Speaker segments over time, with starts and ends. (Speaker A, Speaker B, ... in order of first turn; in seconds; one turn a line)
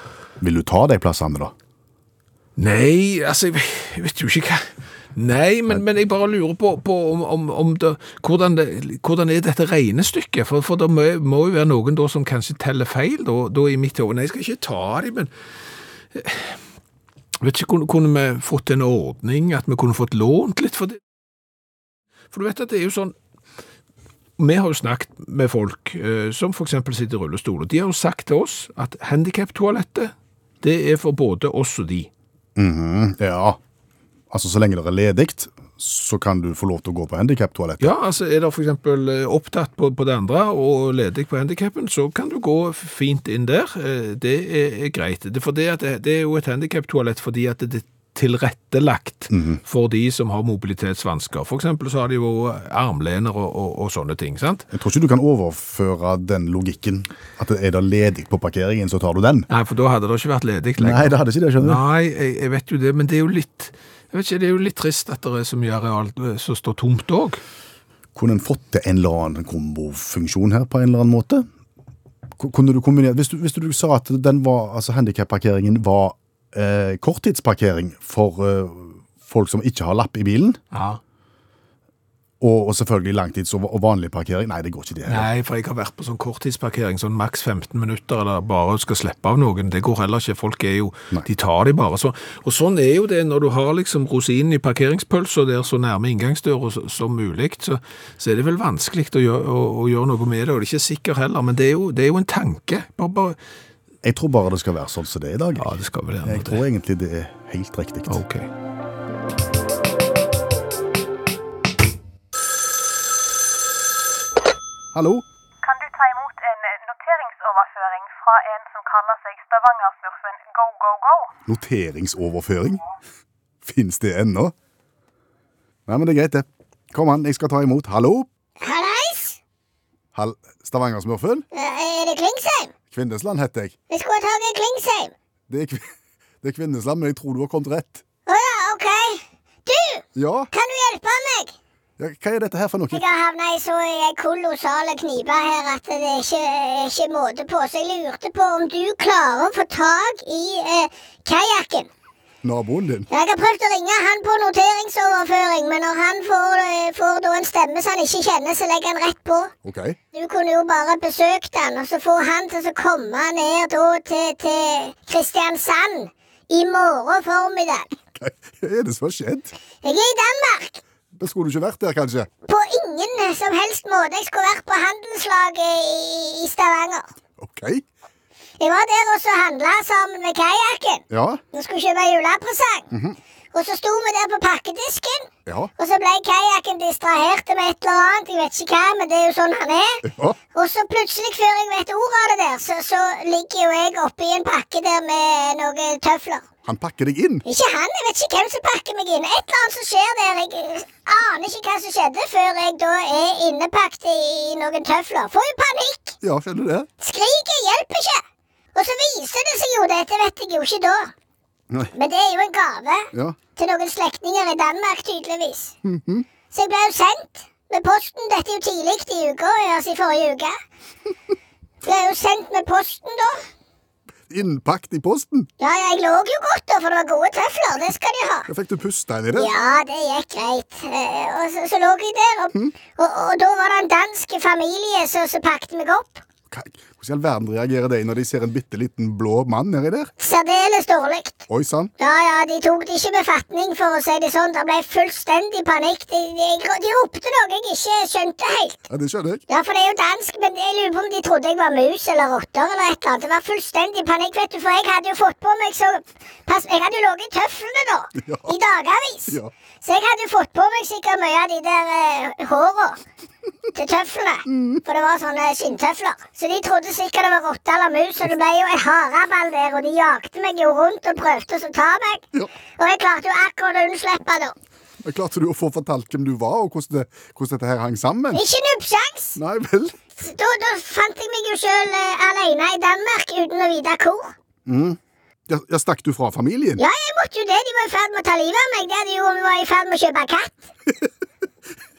Speaker A: 0.4-1.5
Speaker B: 2.6-15.3
Speaker B: 16.1-16.6
Speaker B: 17.4-21.0
Speaker B: 22.3-23.1
Speaker B: 24.4-32.1
Speaker A: 32.6-33.6
Speaker A: 34.3-37.9
Speaker B: 37.8-54.7
Speaker A: 49.3-49.6
Speaker A: 54.7-59.5
Speaker B: 59.5-67.4
Speaker A: 60.8-61.8
Speaker A: 68.2-71.5
Speaker A: 72.4-80.6
Speaker B: 80.7-81.0
Speaker A: 82.4-85.3
Speaker B: 85.1-103.4
Speaker A: 104.0-105.7
Speaker B: 105.6-106.6
Speaker A: 106.2-108.2
Speaker B: 108.1-108.5
Speaker A: 114.9-115.2
Speaker C: 115.7-121.2
Speaker A: 121.5-122.8
Speaker A: 123.6-124.5
Speaker A: 125.9-128.3
Speaker D: 128.6-129.4
Speaker A: 130.1-131.4
Speaker D: 131.5-132.7
Speaker A: 132.9-133.7
Speaker D: 133.9-135.1
Speaker A: 135.5-135.9
Speaker A: 136.4-138.0
Speaker D: 138.3-141.5
Speaker A: 140.1-140.5
Speaker A: 142.0-143.0
Speaker D: 142.9-151.9
Speaker A: 152.4-153.1
Speaker D: 153.1-159.5
Speaker A: 159.6-160.0
Speaker D: 160.1-167.9
Speaker A: 168.2-169.5
Speaker D: 169.8-170.8
Speaker A: 171.2-172.3
Speaker D: 172.4-177.1
Speaker A: 177.4-177.8
Speaker D: 178.6-182.9
Speaker A: 181.1-181.4
Speaker A: 182.9-183.2
Speaker D: 183.5-190.0
Speaker A: 185.4-185.7
Speaker A: 190.0-190.4
Speaker D: 190.5-196.4
Speaker A: 196.6-197.4
Speaker D: 197.4-206.2
Speaker A: 206.2-206.9
Speaker D: 207.0-208.2
Speaker D: 208.8-211.1
Speaker D: 211.9-215.8
Speaker A: 215.8-216.2
Speaker D: 216.5-220.6
Speaker D: 221.8-223.4
Speaker A: 224.3-225.5
Speaker D: 225.6-228.5
Speaker A: 228.5-229.5
Speaker D: 229.3-236.2
Speaker A: 236.5-240.1
Speaker D: 240.2-241.4
Speaker A: 241.5-241.9
Speaker D: 242.0-248.9
Speaker A: 248.9-249.4
Speaker D: 249.5-263.0
Speaker A: 258.2-258.5
Speaker D: 263.7-272.2
Speaker A: 264.5-264.8
Speaker D: 272.8-274.6
Speaker A: 275.0-278.4
Speaker D: 278.3-279.4
Speaker A: 279.4-279.9
Speaker D: 280.2-284.3
Speaker A: 284.7-286.8
Speaker D: 286.8-290.7